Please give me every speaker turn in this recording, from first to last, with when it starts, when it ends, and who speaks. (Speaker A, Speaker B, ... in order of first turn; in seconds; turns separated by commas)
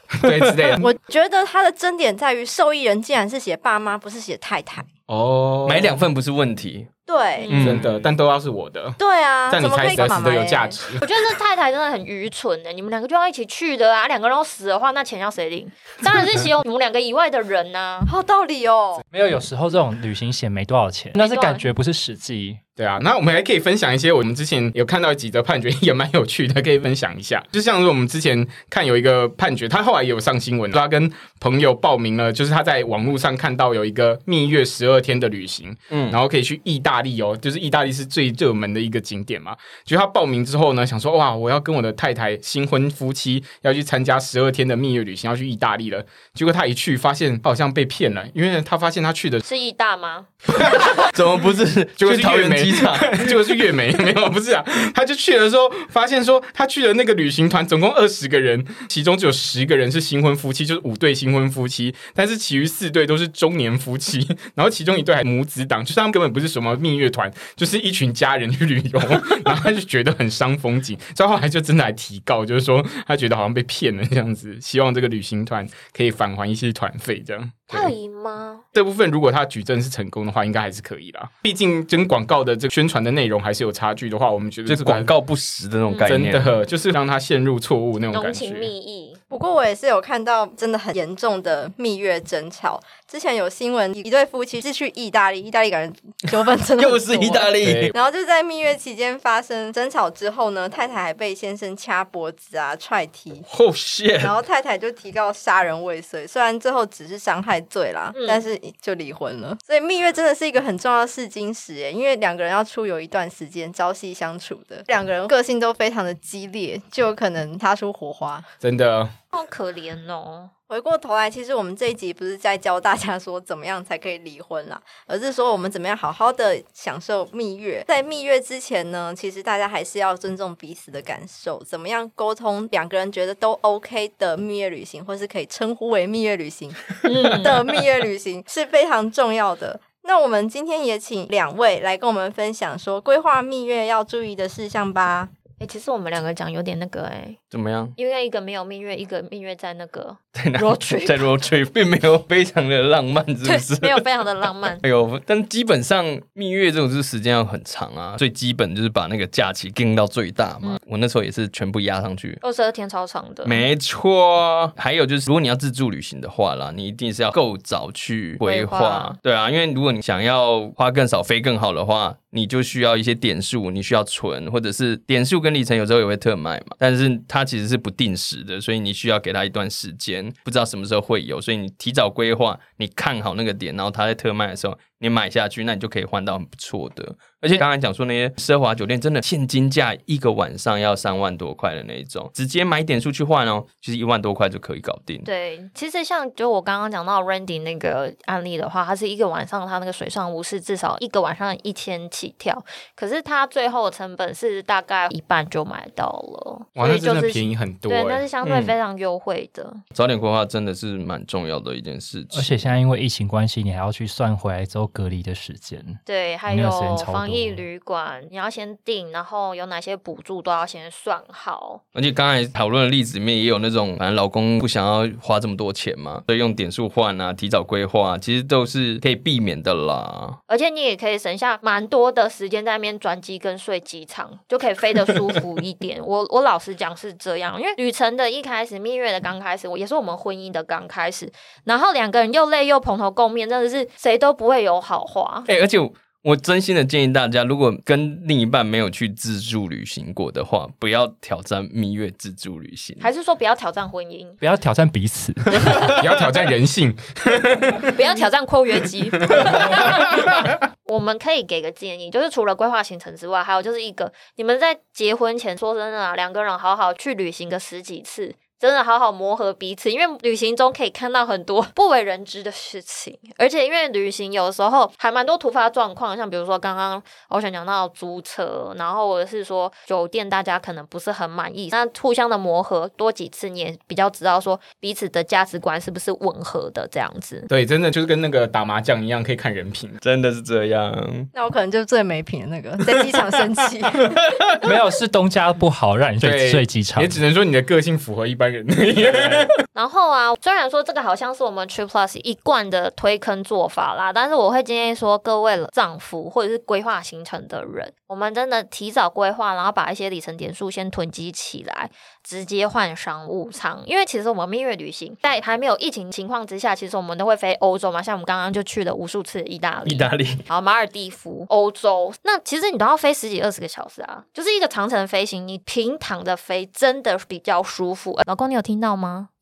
Speaker A: 0.2-0.9, Speaker B: 0.8-4.9, Speaker A: 5.1-6.0, Speaker C: 5.6-6.9, Speaker B: 7.1-7.5, Speaker D: 7.4-7.8, Speaker C: 7.5-7.9, Speaker A: 7.5-9.0, Speaker B: 9.0-10.8, Speaker A: 9.5-11.1, Speaker D: 11.0-18.1, Speaker B: 18.1-19.0, Speaker E: 19.1-22.6, Speaker D: 21.2-21.7, Speaker A: 22.8-49.4, Speaker C: 35.9-36.2, Speaker D: 49.4-50.3, Speaker A: 50.5-51.1, Speaker C: 50.7-53.7, Speaker A: 52.0-77.9, Speaker D: 77.7-78.6, Speaker A: 78.7-85.1, Speaker C: 84.7-86.6, Speaker D: 85.9-86.1, Speaker A: 86.0-88.7, Speaker D: 88.1-89.2, Speaker B: 89.3-103.5, Speaker C: 96.8-97.9, Speaker A: 97.6-97.9, Speaker C: 103.5-104.3, Speaker B: 104.2-118.5, Speaker D: 108.1-108.4, Speaker A: 118.6-119.1, Speaker D: 119.3-120.5, Speaker B: 120.7-145.3, Speaker D: 137.0-137.7, Speaker D: 145.6-147.4, Speaker C: 147.5-147.9, Speaker D: 148.0-151.4, Speaker C: 150.3-154.0, Speaker D: 153.4-154.8, Speaker C: 154.8-162.4, Speaker D: 162.4-163.6, Speaker C: 163.4-195.2, Speaker D: 168.4-169.1, Speaker D: 195.2-209.8, Speaker A: 206.8-208.2, Speaker C: 208.4-208.7, Speaker C: 209.9-212.6, Speaker E: 212.3-217.6, Speaker D: 216.1-221.8, Speaker C: 221.9-230.4, Speaker D: 230.5-245.5, Speaker C: 245.5-253.1, Speaker D: 253.0-254.4, Speaker E: 254.4-256.0, Speaker A: 255.8-257.9, Speaker D: 257.9-287.5, Speaker A: 259.3-260.2, Speaker A: 287.5-290.0, Speaker C: 290.0-291.3, Speaker B: 291.3-294.1, Speaker C: 294.1-294.7, Speaker E: 294.6-297.2, Speaker A: 296.2-299.5, Speaker D: 299.7-329.3, Speaker C: 319.8-320.4